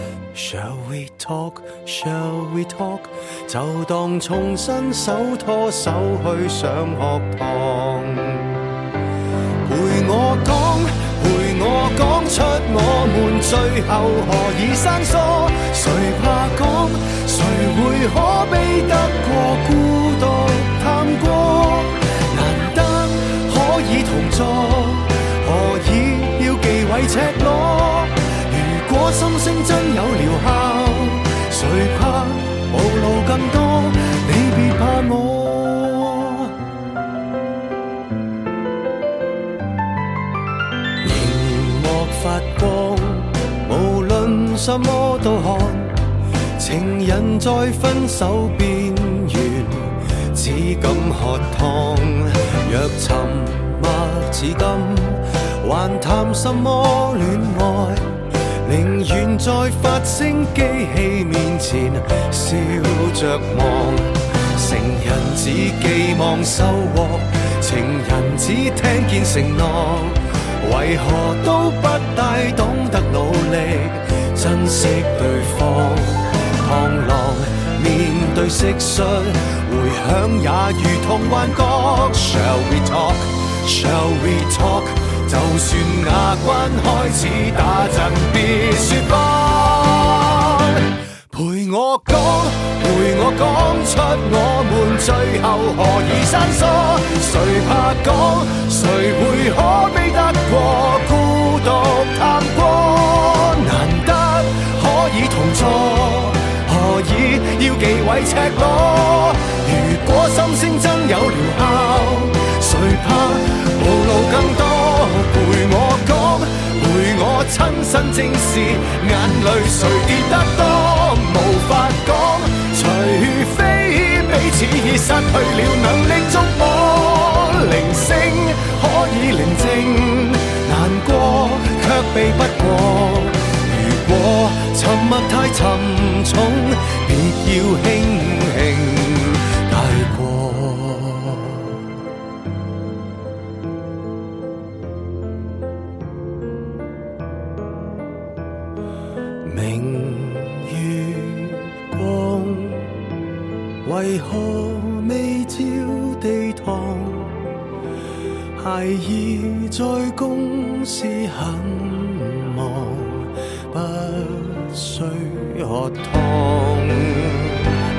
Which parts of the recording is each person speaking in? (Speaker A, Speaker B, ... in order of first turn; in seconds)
Speaker A: 0.3-8.7, 9.6-36.5, 41.0-46.0, 46.6-141.9, 149.4-152.9, 153.8-157.5, 158.5-167.7